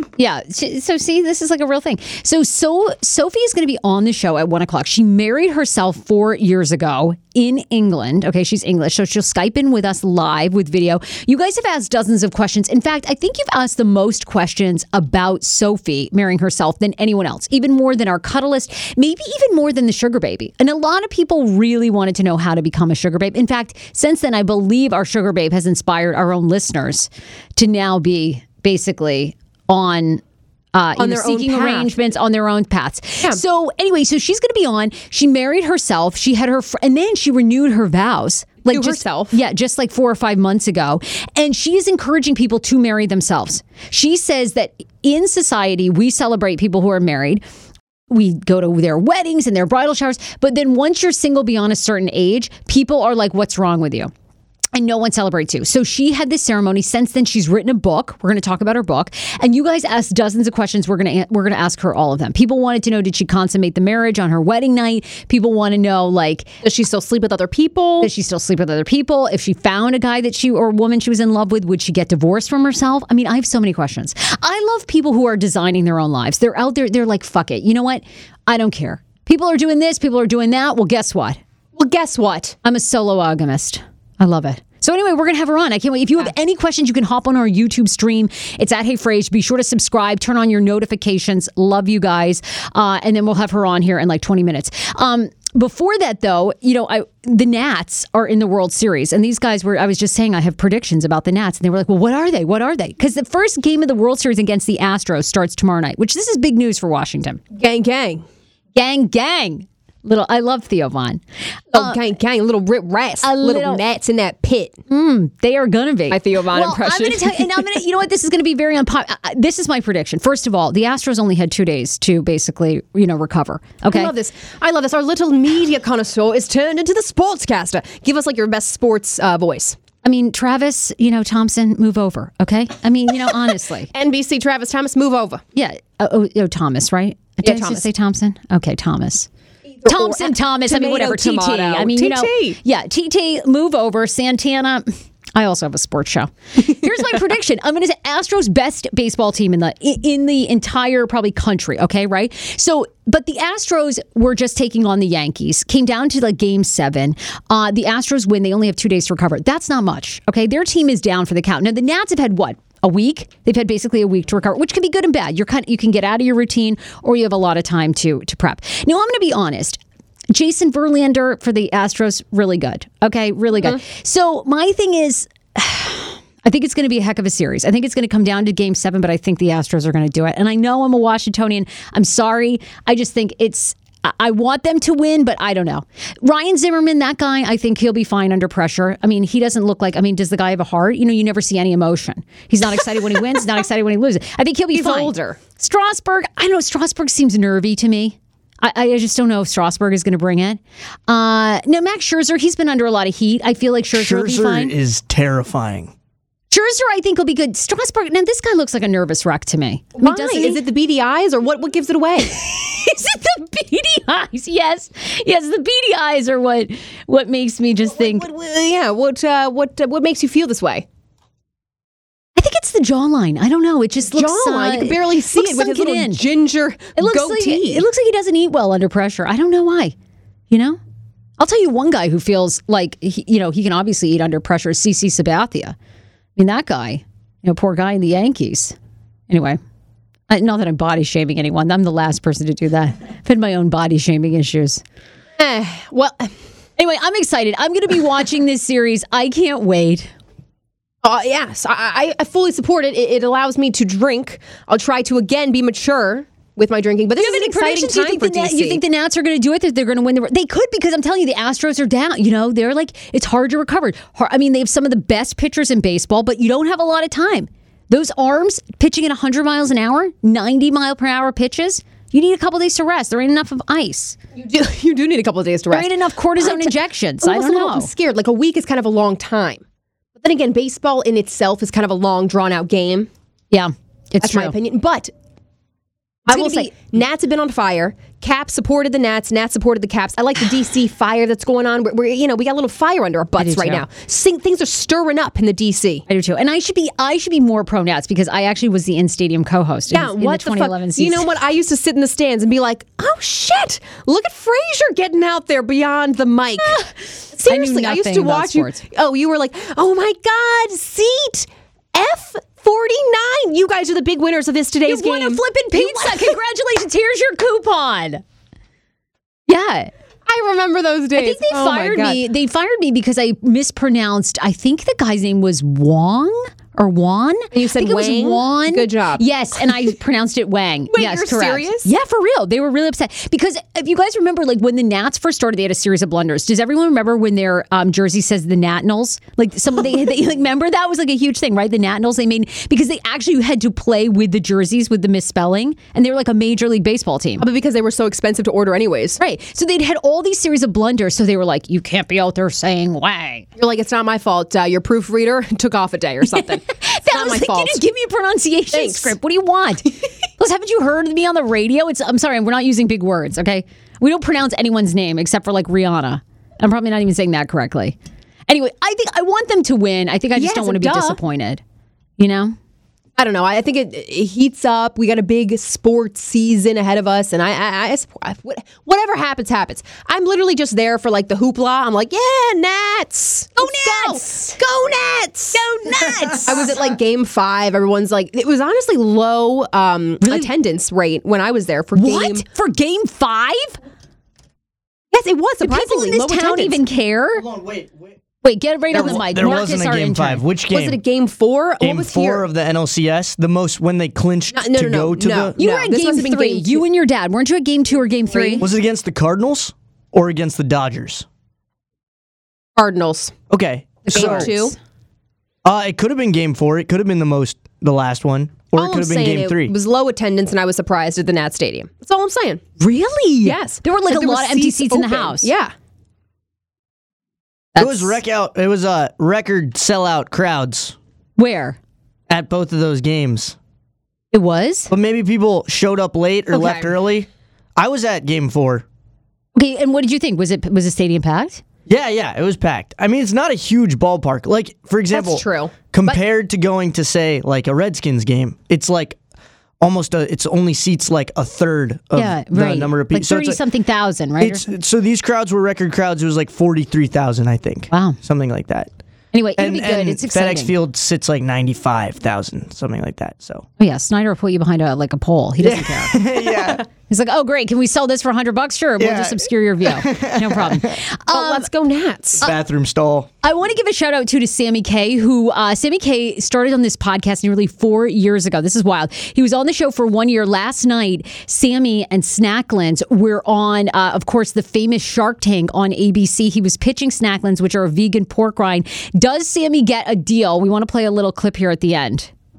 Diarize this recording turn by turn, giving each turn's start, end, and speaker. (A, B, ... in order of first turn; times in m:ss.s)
0:00.2-0:30.2 A
0:30.8-0:47.4 A
0:31.0-0:31.9 B
0:38.7-0:39.4 B
0:48.1-0:54.1 A
0:54.7-1:06.5 A
1:06.6-1:08.1 B
1:08.0-1:21.4 A
1:21.8-1:22.6 B
1:22.6-1:47.4 A
1:47.6-1:48.2 B
1:48.8-1:52.0 A
1:51.7-1:54.8 B
1:53.2-1:53.8 A
1:54.9-2:04.1 A
1:56.1-1:57.5 B
2:03.9-2:09.8 B
2:10.0-2:13.9 A
2:13.9-2:15.4 B
2:15.6-2:19.3 A
2:17.4-2:17.8 B
2:19.8-2:22.6 B
2:19.9-2:49.8 A
2:50.3-3:24.7 A
3:14.7-3:15.4 B
3:23.9-3:25.9 C
3:26.5-3:30.6 A
3:30.0-3:32.4 B
3:32.4-3:38.3 A
3:37.9-3:40.8 B
3:42.4-3:46.2 A
3:44.1-3:47.8 B
3:47.0-3:50.0 A
3:50.5-3:50.8 A
3:51.4-3:55.8 A
3:56.4-3:58.8 A
3:59.3-3:59.6 A
4:00.3-4:04.8 A
4:05.4-4:06.3 B
4:06.8-4:10.1 A
4:11.0-4:18.8 B
4:17.2-4:34.2 A
4:34.4-4:39.6 B
4:35.7-4:37.9 A
4:40.2-4:43.1 B
4:43.5-4:44.6 A
4:44.2-4:45.1 B
4:46.3-4:56.0 B
4:46.3-4:46.7 A
4:53.4-4:53.8 A
4:56.1-5:01.3 A
4:59.9-5:06.8 B
5:07.4-5:16.4 B
5:07.5-5:08.8 A
5:14.9-5:18.2 A
5:19.5-5:19.9 A
5:20.3-5:22.2 B
5:21.2-5:47.4 A
5:27.5-5:29.2 B
5:30.9-5:31.9 B
5:47.4-5:49.2 B
5:49.2-5:53.5 A
5:53.6-5:57.8 B
5:56.3-6:08.0 A
5:58.7-5:59.2 B
6:08.5-6:11.6 A
6:10.4-6:11.2 B
6:12.2-6:12.6 A
6:13.2-6:25.6 B
6:23.6-6:24.6 A
6:25.5-6:26.7 A
6:26.4-6:32.4 B
6:30.2-6:30.5 A
6:32.0-6:33.8 A
6:35.1-6:36.8 B
6:35.6-6:37.5 A
6:37.4-6:38.2 C
6:38.4-6:40.4 A
6:38.9-6:41.0 C
6:38.9-6:39.6 B
6:40.7-6:42.4 B
6:41.8-6:45.6 C
6:44.5-6:46.8 B
6:45.6-6:48.7 A
6:48.3-6:48.7 B
6:48.6-6:51.3 C
6:52.8-6:53.4 B
6:53.5-6:54.5 C
6:54.0-6:54.8 A
6:54.1-6:54.7 B
6:55.6-6:59.7 C
6:58.7-7:02.6 B
7:02.8-7:05.5 A
7:03.4-7:05.7 B
7:07.8-7:08.2 A
7:07.8-7:11.0 C
7:11.4-7:11.8 A
7:12.3-7:13.6 C
7:14.3-7:14.9 A
7:14.9-7:18.8 C
7:16.5-7:17.0 B
7:19.6-7:21.6 A
7:21.9-7:29.2 C
7:25.1-7:26.2 B
7:29.8-7:33.6 C
7:32.1-7:34.7 A
7:34.4-7:38.9 C
7:37.9-7:38.2 A
7:39.3-7:40.7 A
7:39.6-7:43.6 C
7:43.8-7:46.5 A
7:45.6-7:46.8 C
7:47.1-7:51.7 A
7:49.0-7:50.9 C
7:51.3-7:52.4 B
7:52.4-7:53.3 C
7:53.4-8:12.3 A